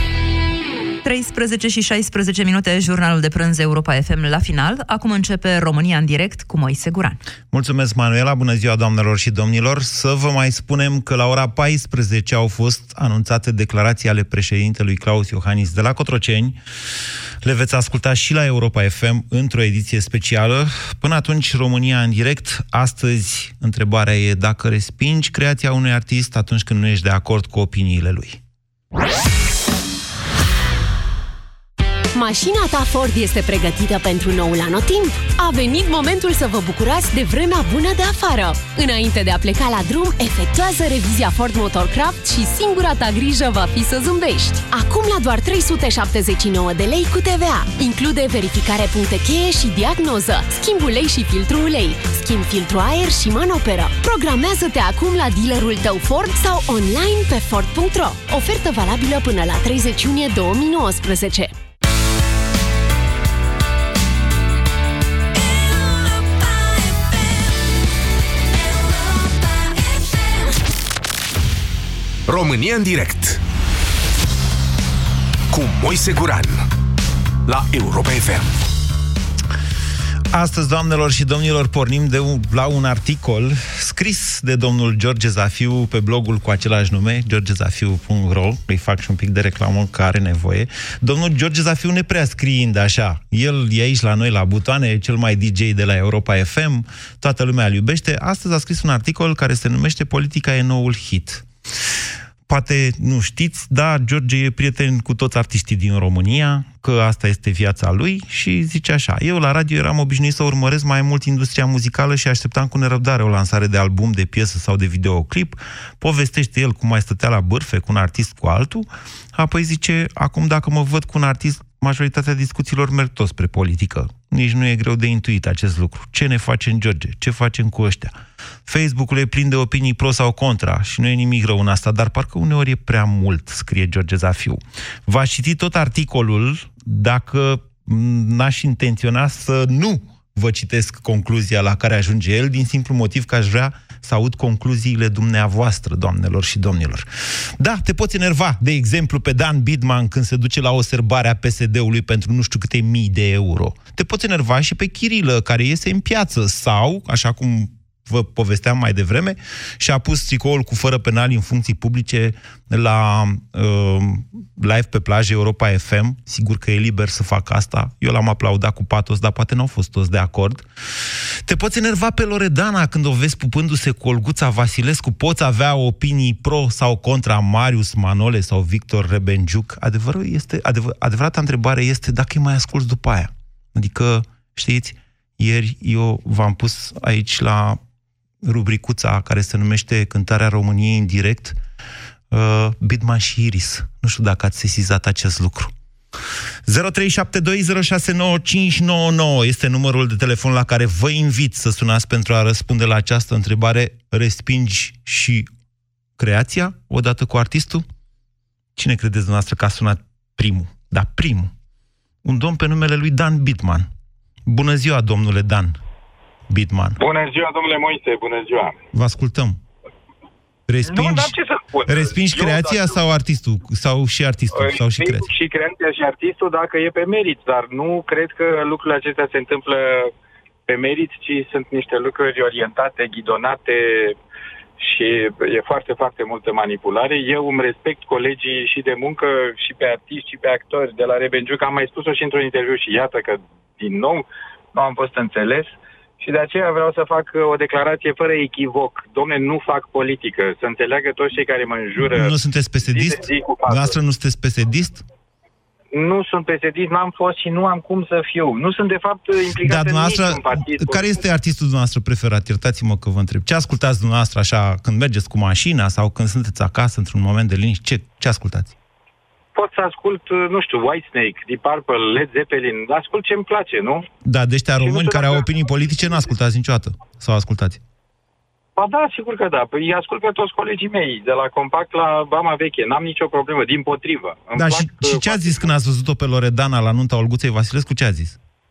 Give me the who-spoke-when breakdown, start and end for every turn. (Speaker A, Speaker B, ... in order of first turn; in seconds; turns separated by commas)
Speaker A: 1.0-7.2, Speaker B: 7.5-16.6, Speaker B: 17.4-28.4, Speaker C: 32.1-61.5, Speaker D: 72.3-73.4, Speaker D: 75.5-76.7, Speaker D: 77.5-78.6, Speaker B: 80.3-101.5, Speaker B: 102.5-187.8, Speaker B: 188.4-191.6, Speaker B: 192.3-195.7, Speaker B: 196.7-205.5, Speaker B: 206.2-207.8, Speaker B: 208.8-211.5, Speaker B: 212.2-213.9, Speaker B: 214.5-215.8, Speaker B: 216.5-217.0, Speaker E: 217.0-218.8, Speaker B: 218.9-219.6, Speaker B: 220.7-221.3, Speaker E: 220.8-223.0, Speaker B: 221.9-225.3, Speaker E: 224.6-230.1, Speaker E: 230.7-234.2, Speaker E: 234.8-253.9, Speaker B: 252.0-255.1, Speaker E: 255.9-261.2, Speaker B: 259.6-268.7, Speaker E: 269.6-274.1, Speaker B: 274.2-277.8, Speaker E: 274.8-276.3, Speaker E: 278.8-285.7, Speaker B: 284.6-288.4